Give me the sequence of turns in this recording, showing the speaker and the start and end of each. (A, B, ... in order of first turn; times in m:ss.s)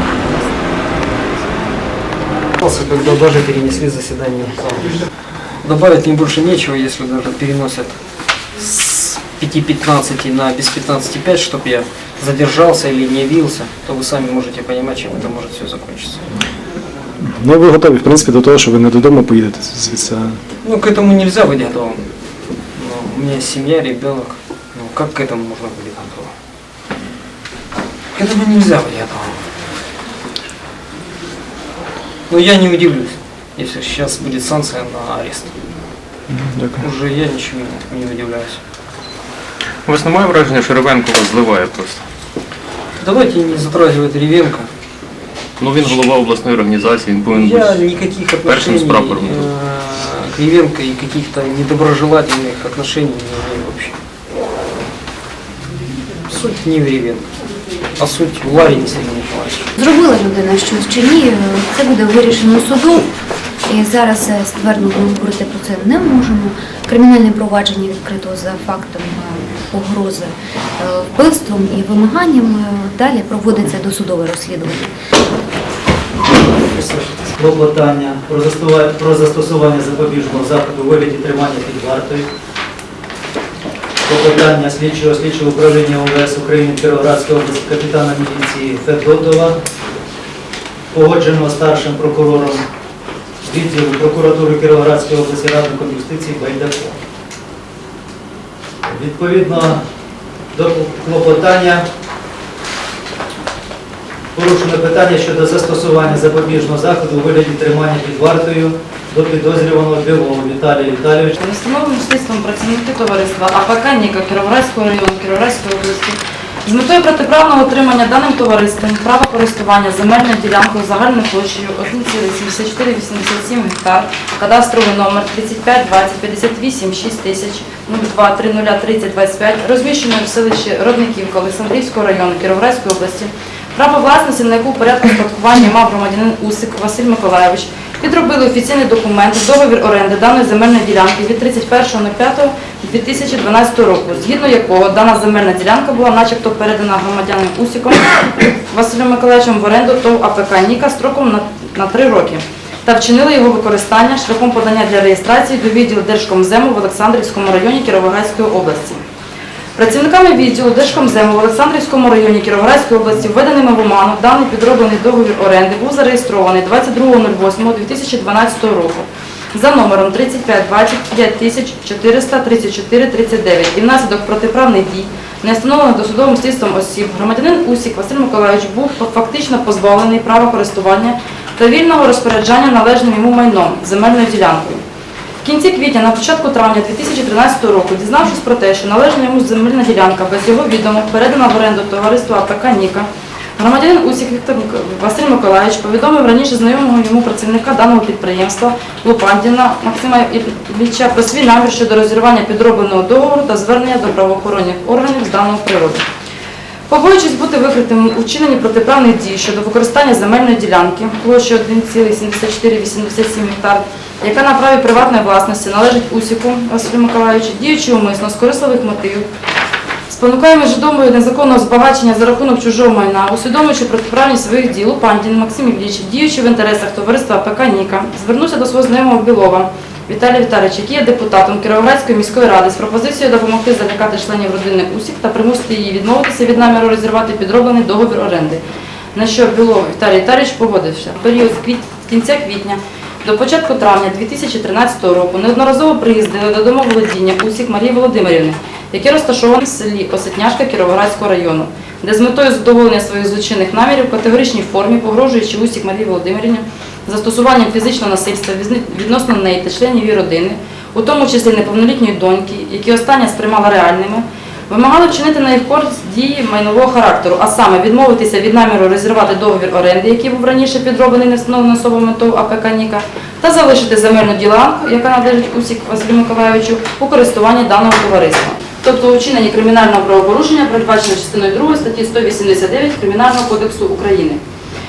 0:02.5-0:05.0 A
0:05.6-0:08.0 A
0:08.5-0:16.2 A
0:17.2-0:20.4 B
0:20.6-0:22.1 A
0:22.7-0:26.3 A
0:28.1-0:29.4 A
0:32.3-0:35.6 A
0:36.3-0:36.8 B
0:36.8-0:38.6 A
0:39.8-0:42.0 C
0:43.0-0:44.7 A
0:45.6-0:49.5 C
0:47.3-0:54.0 A
0:56.3-0:57.3 A
0:58.0-0:59.7 A
0:59.8-1:03.0 D
1:03.7-1:14.9 D
1:16.3-1:22.3 E
1:24.0-1:29.6 E
1:30.9-1:32.6 E
1:33.4-1:37.0 E
1:38.8-1:39.8 E
1:40.5-1:41.8 E
1:44.3-1:51.4 E
1:51.4-2:39.0 F
2:39.8-3:04.8 F
3:05.4-3:26.0 F
3:26.9-3:39.3 F
3:40.1-3:58.6 F
3:59.1-4:44.4 F